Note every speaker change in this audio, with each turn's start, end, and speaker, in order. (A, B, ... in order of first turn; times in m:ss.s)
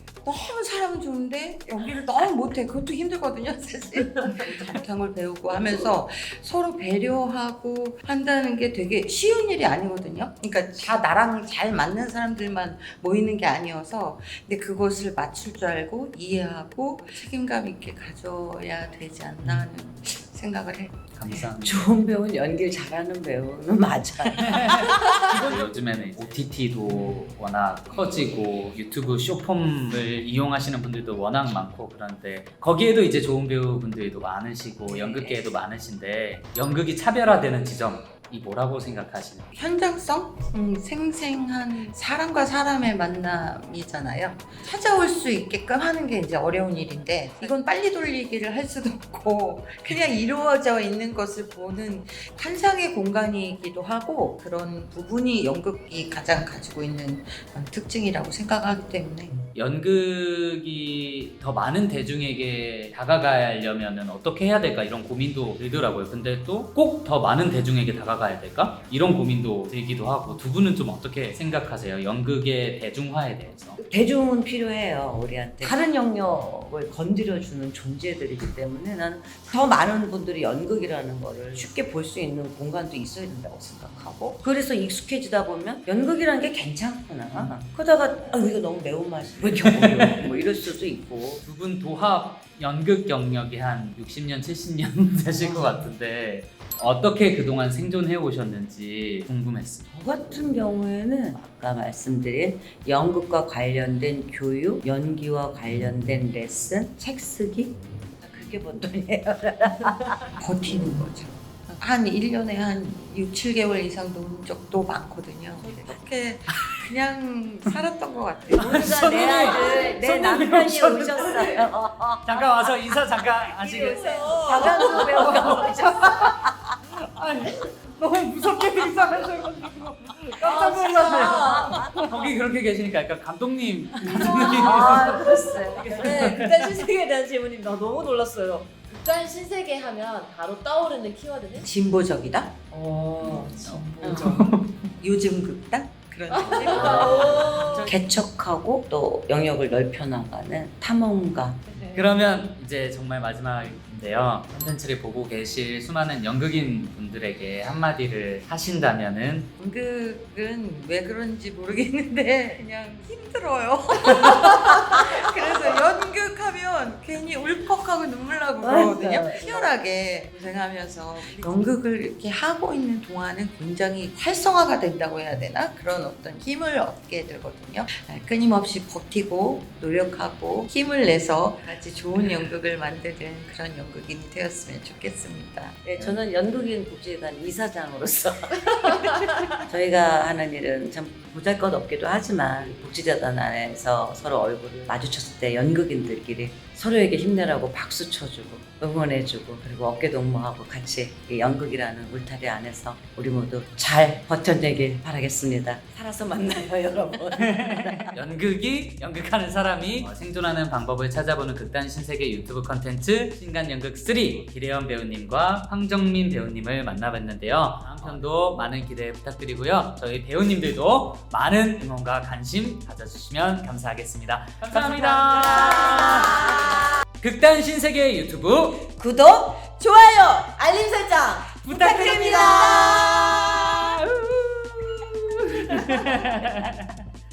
0:00.2-0:21.5 A
0:21.2-0:21.9 B
0:21.6-0:25.5 C
0:24.4-0:39.5 B
0:34.9-0:35.4 A
0:39.5-0:59.4 A
0:59.5-1:13.8 B
1:13.8-1:31.4 C
1:27.3-1:27.6 B
1:29.6-1:30.2 B
1:31.4-1:39.9 B
1:35.3-1:35.9 C
1:39.9-1:50.4 C
1:50.4-1:59.0 A
1:55.6-1:55.9 C
1:58.5-2:03.5 C
1:58.6-2:01.7 B
2:02.2-2:06.4 B
2:03.7-2:05.3 D
2:04.3-2:06.8 C
2:04.7-2:04.9 A
2:07.0-2:16.9 B
2:09.2-2:09.7 D
2:10.3-2:10.7 C
2:10.4-2:11.8 D
2:10.8-2:11.3 A
2:11.3-2:12.1 C
2:14.0-2:16.2 C
2:15.1-2:21.7 D
2:21.6-2:22.7 A
2:22.7-2:24.4 D
2:23.2-2:24.8 B
2:23.6-2:27.6 A
2:26.3-2:27.9 D
2:26.5-2:28.0 B
2:26.7-2:31.8 C
2:31.7-2:32.0 A
2:31.9-2:39.5 B
2:39.6-3:05.8 A
2:48.6-2:49.7 C
3:05.8-3:28.2 C
3:27.5-3:48.9 B
3:46.3-3:46.6 C
3:49.0-3:50.5 C
3:50.5-3:51.6 D
3:51.6-3:54.9 B
3:51.7-3:53.5 C
3:55.5-3:56.9 B